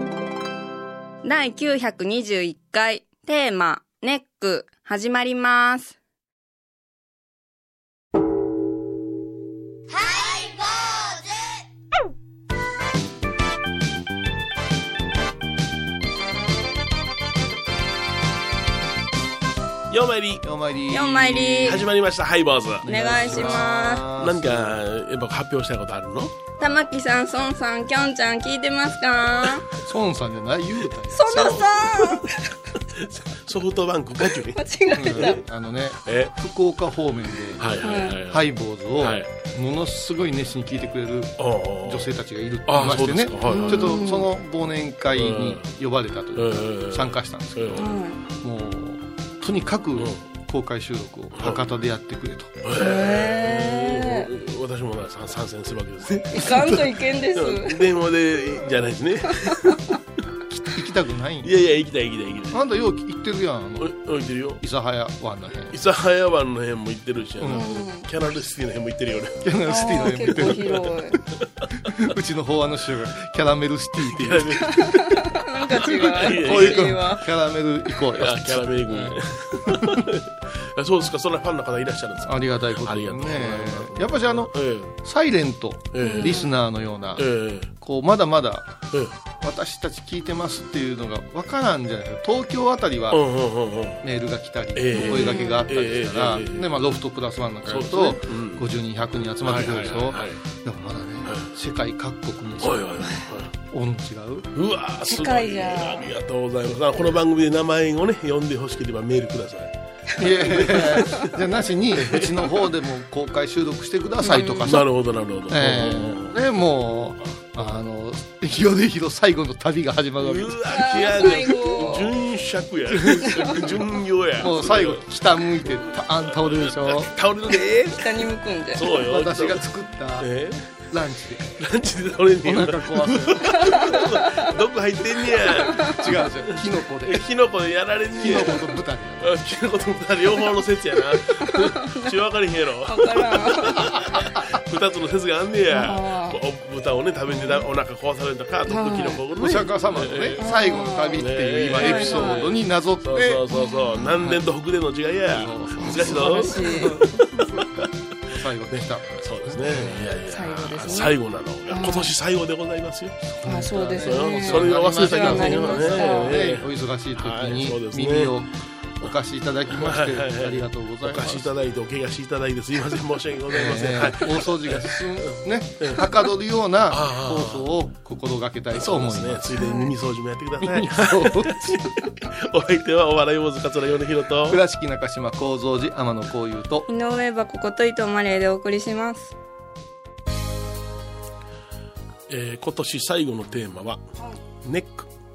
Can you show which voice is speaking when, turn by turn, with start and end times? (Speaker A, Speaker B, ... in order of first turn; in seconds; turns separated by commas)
Speaker A: 1.2-5.9, Speaker B: 19.9-20.4, Speaker C: 20.4-21.9, Speaker A: 20.9-21.8, Speaker B: 21.1-26.4, Speaker C: 22.8-24.8, Speaker A: 22.9-24.1, Speaker A: 26.6-29.6, Speaker C: 29.8-31.8, Speaker A: 31.1-32.6, Speaker B: 31.3-32.2, Speaker B: 33.0-34.6, Speaker A: 34.3-35.4, Speaker C: 34.9-52.6, Speaker B: 36.0-36.3, Speaker B: 37.6-38.5, Speaker A: 37.8-38.2, Speaker B: 39.0-39.3, Speaker B: 41.4-42.1, Speaker B: 42.7-44.0, Speaker A: 43.5-44.3, Speaker B: 45.1-45.7, Speaker B: 46.4-47.9, Speaker A: 47.8-48.2, Speaker B: 52.6-59.8, Speaker A: 52.8-54.3, Speaker A: 56.3-57.9, Speaker A: 59.4-59.8, Speaker C: 60.5-61.5, Speaker B: 61.4-62.6, Speaker C: 62.5-63.9, Speaker B: 63.8-64.6, Speaker C: 64.6-65.8, Speaker B: 65.7-69.4, Speaker C: 67.4-67.8, Speaker A: 67.5-68.0, Speaker C: 69.4-70.8, Speaker A: 69.7-71.2, Speaker B: 70.3-70.8, Speaker B: 71.4-71.8, Speaker C: 71.9-74.7, Speaker B: 74.0-77.1, Speaker A: 74.8-77.2, Speaker C: 76.0-80.1, Speaker B: 78.2-84.9, Speaker C: 82.3-87.3, Speaker B: 85.9-86.5, Speaker A: 86.0-86.5, Speaker B: 87.2-87.7, Speaker C: 87.8-88.8, Speaker C: 89.4-93.3, Speaker B: 93.1-94.0, Speaker C: 94.0-103.1, Speaker B: 94.8-96.7, Speaker A: 95.0-95.7, Speaker B: 97.7-98.7, Speaker B: 99.4-100.4, Speaker B: 102.6-103.5, Speaker C: 103.7-104.5, Speaker B: 104.5-111.3, Speaker A: 105.1-106.1, Speaker C: 110.2-114.9, Speaker B: 112.0-112.6, Speaker A: 114.3-114.6, Speaker B: 114.3-116.4, Speaker C: 115.5-122.0, Speaker B: 120.2-125.1, Speaker A: 120.7-122.1, Speaker A: 123.2-123.6, Speaker C: 124.4-127.2, Speaker B: 126.5-129.6, Speaker A: 127.9-128.9, Speaker C: 129.0-130.3, Speaker B: 130.2-130.8, Speaker C: 130.9-131.6, Speaker B: 131.6-150.4, Speaker C: 132.4-133.8, Speaker C: 135.9-137.3, Speaker C: 138.2-139.4, Speaker A: 141.5-142.1, Speaker A: 142.9-144.0, Speaker A: 145.7-146.4, Speaker A: 148.7-149.2, Speaker C: 149.3-153.5, Speaker A: 150.4-151.2, Speaker B: 151.2-157.9, Speaker A: 151.8-152.5, Speaker A: 153.5-154.0, Speaker C: 154.1-154.4, Speaker C: 155.3-160.1, Speaker A: 155.8-156.9, Speaker B: 158.7-168.4, Speaker A: 160.3-161.1, Speaker A: 161.7-162.1, Speaker C: 163.3-171.6, Speaker A: 163.4-166.4, Speaker B: 169.7-176.2, Speaker C: 173.5-179.6, Speaker B: 176.9-177.7, Speaker B: 178.7-184.6, Speaker A: 179.6-179.9, Speaker C: 180.6-181.9, Speaker C: 184.5-186.9, Speaker A: 186.9-189.3, Speaker B: 192.3-194.0, Speaker B: 194.6-195.1